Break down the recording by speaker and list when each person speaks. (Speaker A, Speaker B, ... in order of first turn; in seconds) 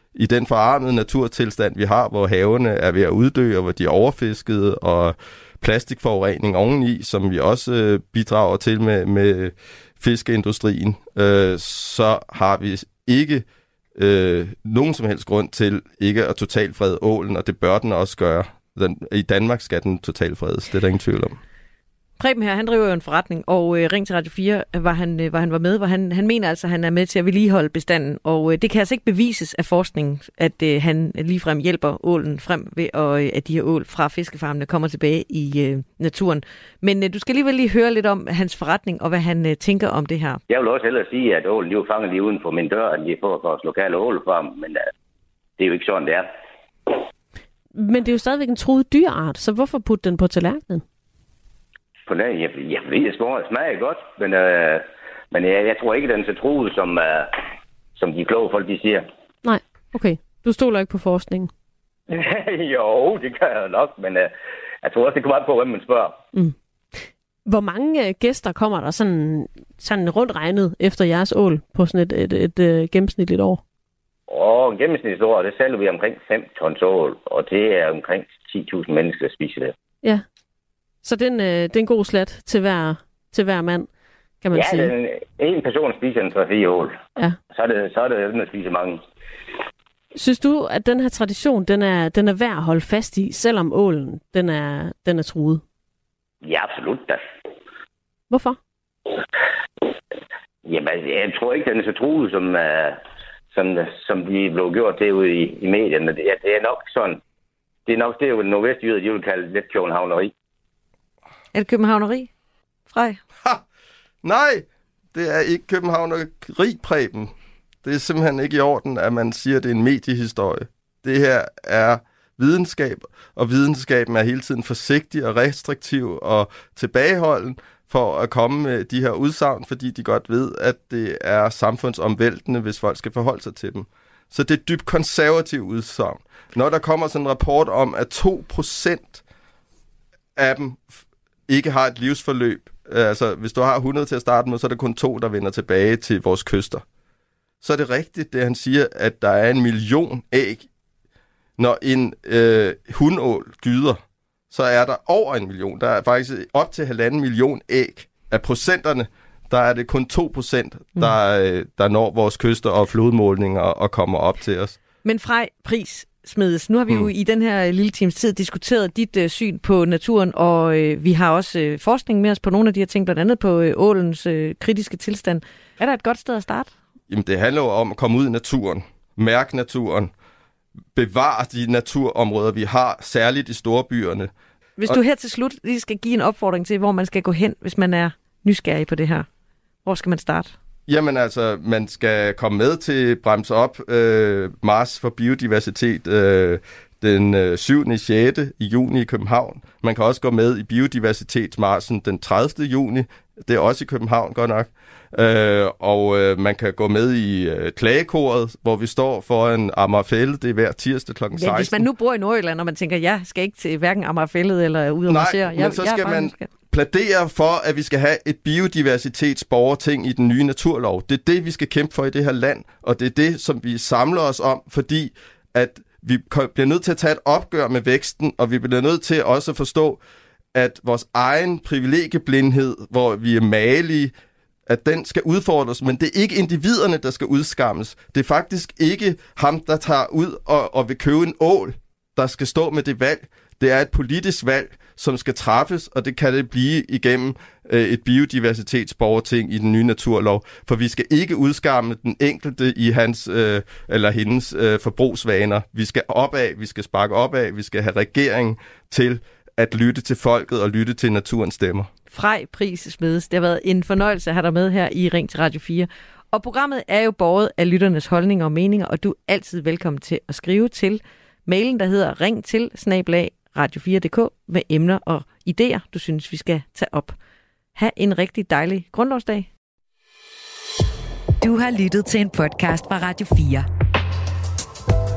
Speaker A: 0.1-21.4, 114.2-117.3, 117.8-139.2, 140.4-146.8, 147.6-150.7, 151.6-154.0, 154.5-164.8, 177.1-180.1, 180.9-184.3, 190.9-211.9, 215.1-230.0, 230.5-234.1, 234.7-261.9
Speaker B: 22.2-40.4, 111.5-112.3, 112.9-113.2, 165.0-176.7, 184.8-189.3, 189.8-190.6, 211.3-216.5, 262.1-277.2, 277.8-279.5
Speaker C: 40.5-44.9, 45.6-46.3, 52.1-59.0, 62.1-64.3, 64.8-66.2, 74.3-79.7, 84.5-89.0, 96.4-97.2, 100.7-103.0, 103.5-107.2, 107.9-110.3
Speaker D: 47.7-50.8, 59.4-61.5, 67.5-73.6, 81.0-83.9, 84.4-84.9, 90.2-95.6, 98.3-98.6
Speaker E: 281.4-283.7